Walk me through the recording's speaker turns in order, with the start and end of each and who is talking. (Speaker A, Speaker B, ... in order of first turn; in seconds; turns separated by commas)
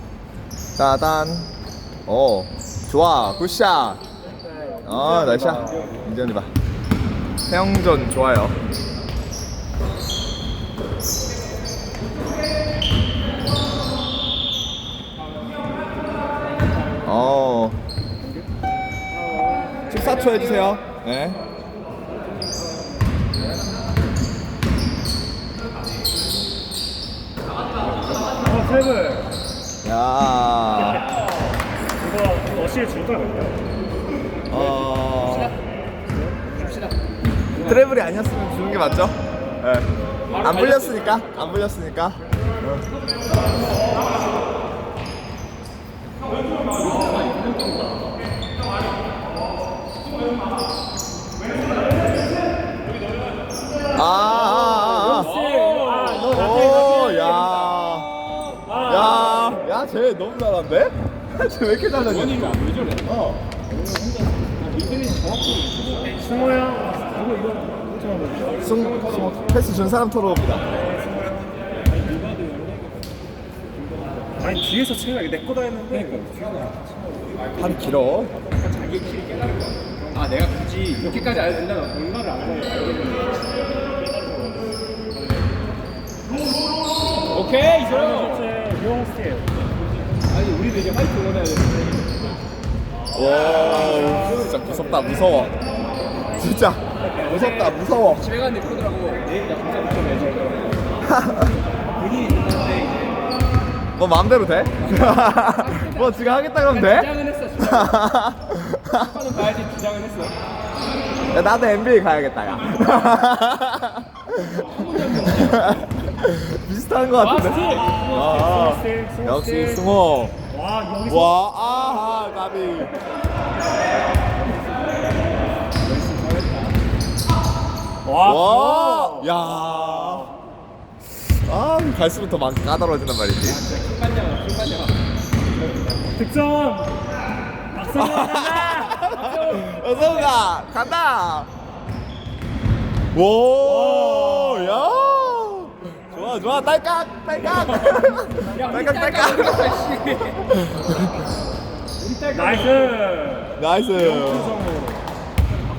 Speaker A: 0.8-1.5, Speaker A: 2.0-4.0, Speaker B: 4.5-5.9, Speaker A: 4.8-6.5, Speaker A: 7.5-8.6, Speaker A: 17.0-17.8, Speaker A: 19.9-21.4, Speaker B: 28.4-29.3, Speaker A: 29.8-31.0, Speaker B: 32.0-33.6, Speaker A: 34.5-35.6, Speaker C: 35.2-35.5, Speaker C: 36.6-37.0, Speaker C: 37.5-37.8, Speaker A: 37.5-42.9, Speaker C: 40.3-41.4, Speaker C: 46.8-48.0, Speaker A: 53.9-55.3, Speaker C: 55.0-57.2, Speaker B: 55.2-57.3, Speaker A: 56.2-63.4, Speaker B: 58.7-59.2, Speaker C: 61.9-63.2, Speaker B: 63.9-64.3, Speaker C: 64.6-66.5, Speaker B: 66.2-68.6, Speaker C: 68.5-69.6, Speaker A: 68.6-70.8, Speaker B: 74.4-76.3, Speaker C: 76.0-76.7, Speaker A: 77.6-78.3, Speaker C: 78.5-83.5, Speaker C: 87.3-88.6, Speaker B: 87.9-89.5, Speaker C: 90.3-92.1, Speaker A: 93.1-95.6, Speaker C: 93.8-94.7, Speaker A: 96.3-98.2, Speaker C: 97.2-100.9, Speaker A: 101.1-101.5, Speaker C: 102.0-103.2, Speaker A: 104.0-109.1, Speaker C: 104.8-108.0, Speaker C: 109.0-110.3, Speaker A: 111.3-114.7, Speaker C: 114.5-116.0, Speaker A: 115.3-120.4, Speaker C: 117.2-118.2, Speaker B: 117.9-119.9, Speaker B: 120.5-121.3, Speaker A: 121.1-123.0, Speaker C: 124.3-125.1, Speaker C: 125.7-126.8, Speaker B: 128.0-129.3, Speaker A: 128.2-130.3, Speaker A: 131.2-133.6, Speaker C: 133.5-134.9, Speaker B: 136.1-136.9, Speaker B: 137.7-138.9, Speaker A: 137.8-141.5, Speaker C: 139.1-140.4, Speaker A: 143.1-149.8, Speaker B: 143.8-144.8, Speaker C: 147.5-150.5, Speaker A: 150.5-151.2, Speaker C: 152.0-153.0, Speaker B: 152.5-155.0, Speaker A: 153.6-154.6